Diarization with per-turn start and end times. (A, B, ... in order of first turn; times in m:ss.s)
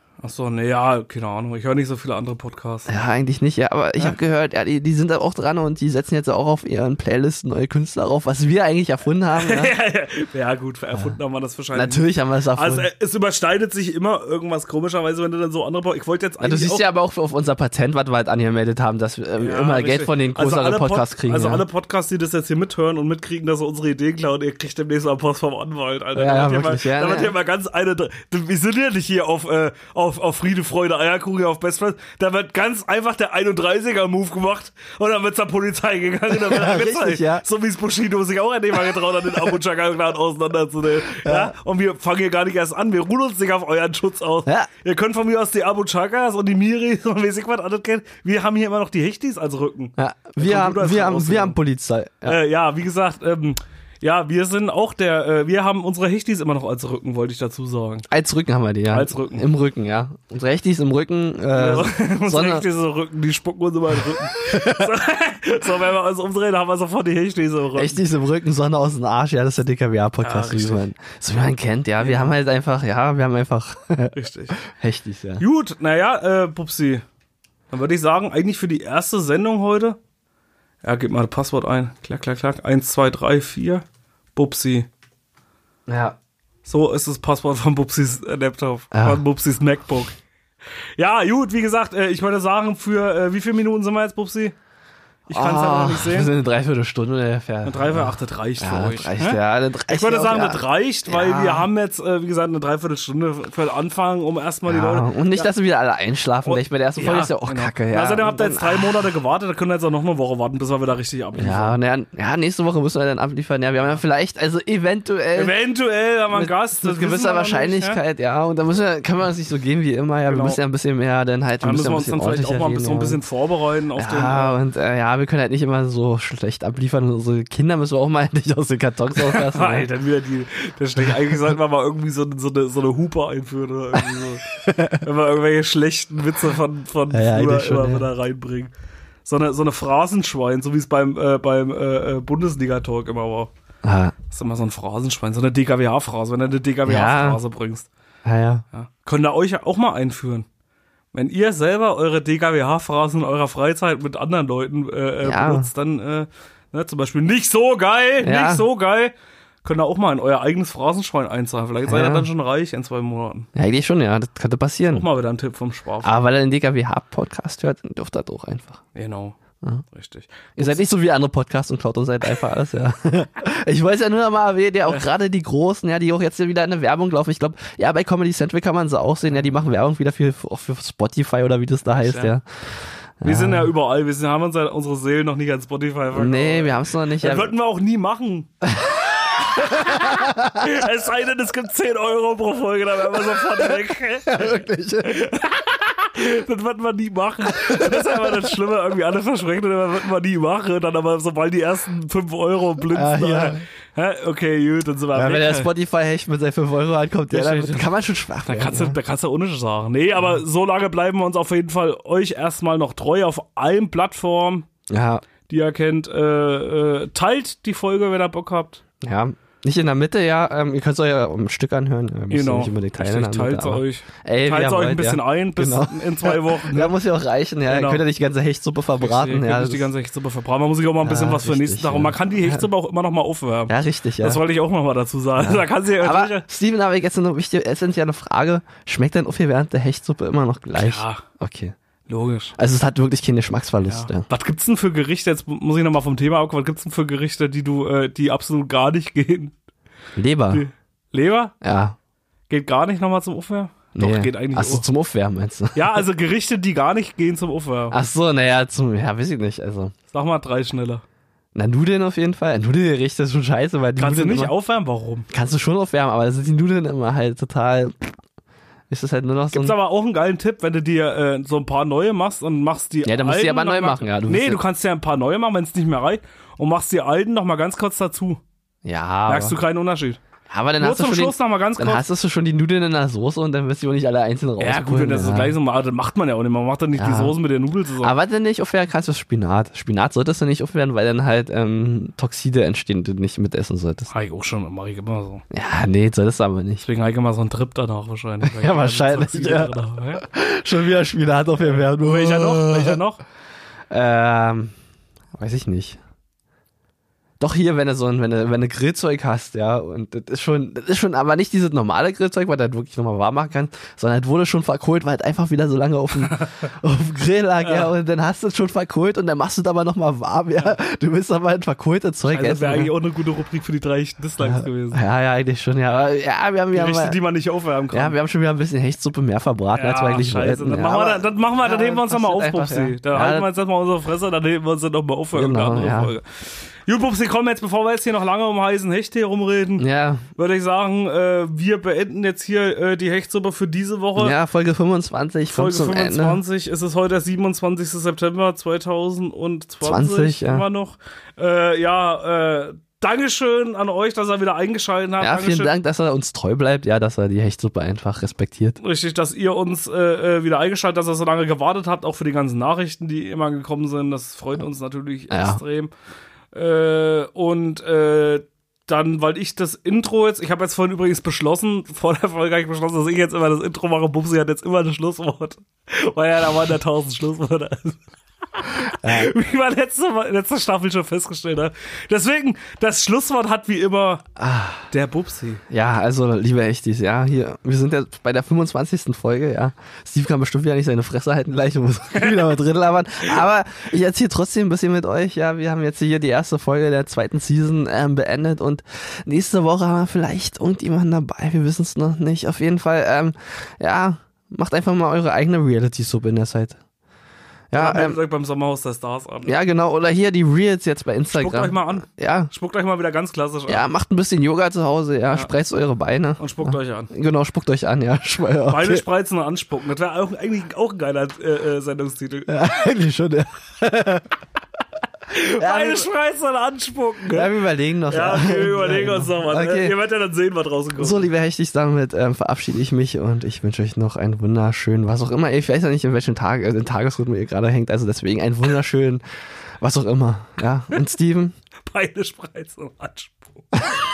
0:00.2-0:02.9 A
0:02.9-0:09.7 B
0:09.4-0:16.8 A
0:11.7-0:12.9 B
0:16.4-0:21.6 B
0:19.4-0:51.6 A
0:26.2-0:27.4 B
0:36.3-0:37.4 B
0:41.2-0:41.5 B
0:50.0-0:52.4 B
0:52.3-0:58.1 A
0:58.1-1:02.6 B
0:58.9-0:59.5 A
1:01.5-1:08.0 A
1:04.1-1:05.0 B
1:07.8-1:15.4 B
1:10.2-1:10.9 A
1:12.0-1:12.3 A
1:14.1-1:14.6 A
1:15.4-1:17.0 A
1:17.7-1:20.0 A
1:20.8-1:23.8 A
1:24.4-1:24.9 A
1:25.9-1:26.2 B
1:26.6-1:30.1 A
1:28.9-1:29.2 B
1:31.0-1:34.6 A
1:35.3-1:36.3 A
1:35.3-1:41.7 B
1:37.6-1:45.5 A
1:44.6-1:49.0 B
1:46.4-1:51.8 A
1:51.4-1:55.6 B
1:55.4-1:58.0 A
1:56.3-2:03.2 B
2:00.3-2:00.6 A
2:01.6-2:04.6 A
2:04.0-2:09.9 B
2:09.2-2:18.7 A
2:14.6-2:15.0 B
2:17.1-2:18.1 B
2:19.2-2:23.5 A
2:23.8-2:24.2 B
2:24.3-2:27.9 A
2:26.9-2:27.4 B
2:28.2-2:28.6 B
2:28.7-2:30.5 A
2:31.1-2:43.5 A
2:35.2-2:35.7 B
2:38.2-2:38.6 B
2:41.9-2:42.3 B
2:43.5-2:45.0 B
2:44.9-2:46.2 A
2:46.0-2:48.8 B
2:49.0-2:49.4 A
2:49.9-2:50.8 A
2:50.6-3:02.4 B
3:01.9-3:02.4 A
3:03.2-3:03.7 B
3:03.2-3:08.5 A
3:06.1-3:07.5 B
3:08.6-3:10.7 B
3:09.4-3:25.7 A
3:14.3-3:15.2 B
3:17.6-3:18.5 B
3:22.9-3:23.6 B
3:25.1-3:29.0 B
3:27.3-3:27.9 A
3:28.4-3:34.7 A
3:34.9-3:35.2 B
3:35.5-3:38.8 A
3:39.0-3:49.9 B
3:42.3-3:47.0 A
3:47.7-3:48.0 A
3:49.0-3:56.5 A
3:51.0-3:52.6 B
3:53.7-3:54.4 B
3:55.4-4:01.7 B
4:00.8-4:01.2 A
4:02.1-4:02.6 A
4:02.6-4:04.3 B
4:03.9-4:09.5 A
4:10.2-4:10.6 B
4:10.5-4:11.5 A
4:11.6-4:12.0 B
4:12.5-4:14.8 A
4:14.0-4:16.0 B
4:15.8-4:18.0 A
4:17.9-4:19.9 B
4:20.1-4:21.0 A
4:21.6-4:24.5 B
4:24.0-4:25.3 A
4:25.3-4:28.2 B
4:28.9-4:29.8 B
4:29.5-4:38.4 A
4:33.0-4:34.6 B
4:38.8-4:39.6 B
4:39.3-4:40.2 A
4:40.5-4:45.6 B
4:40.8-4:42.0 A
4:44.6-4:48.1 A
4:47.0-4:47.4 B
4:48.0-4:54.1 B
4:54.1-4:55.4 A
4:55.5-4:56.8 B
4:56.8-5:00.2 A
4:58.4-5:03.0 B
5:01.6-5:03.2 A
5:03.9-5:04.7 B
5:05.4-5:06.0 B
5:07.4-5:22.9 B
5:16.3-5:16.7 A
5:17.6-5:17.9 A
5:22.3-5:25.0 A
5:24.4-5:27.2 B
5:26.7-5:28.2 A
5:27.9-5:33.5 B
5:29.8-5:44.4 A
5:35.3-5:36.1 B
5:39.8-5:40.2 B
5:44.2-5:46.4 B
5:45.5-5:55.8 A
5:49.8-5:50.6 B
5:55.2-5:58.8 B
5:58.8-6:05.9 A
6:05.3-6:05.6 B
6:06.5-6:18.0 A
6:18.6-6:24.2 A
6:19.0-6:19.3 B
6:24.4-6:24.9 B
6:24.9-6:25.6 A
6:25.7-6:46.8 B
6:47.7-6:48.2 B
6:47.7-6:49.5 A
6:49.4-6:52.5 B
6:51.3-6:53.9 A
6:53.7-6:59.0 B
6:56.4-6:57.1 A
6:58.7-7:02.6 A
7:02.5-7:04.3 B
7:05.3-7:07.5 A
7:05.6-7:06.1 B
7:07.3-7:10.0 B
7:08.1-7:11.3 A
7:11.0-7:19.2 B
7:19.8-7:21.6 B
7:21.9-7:23.6 A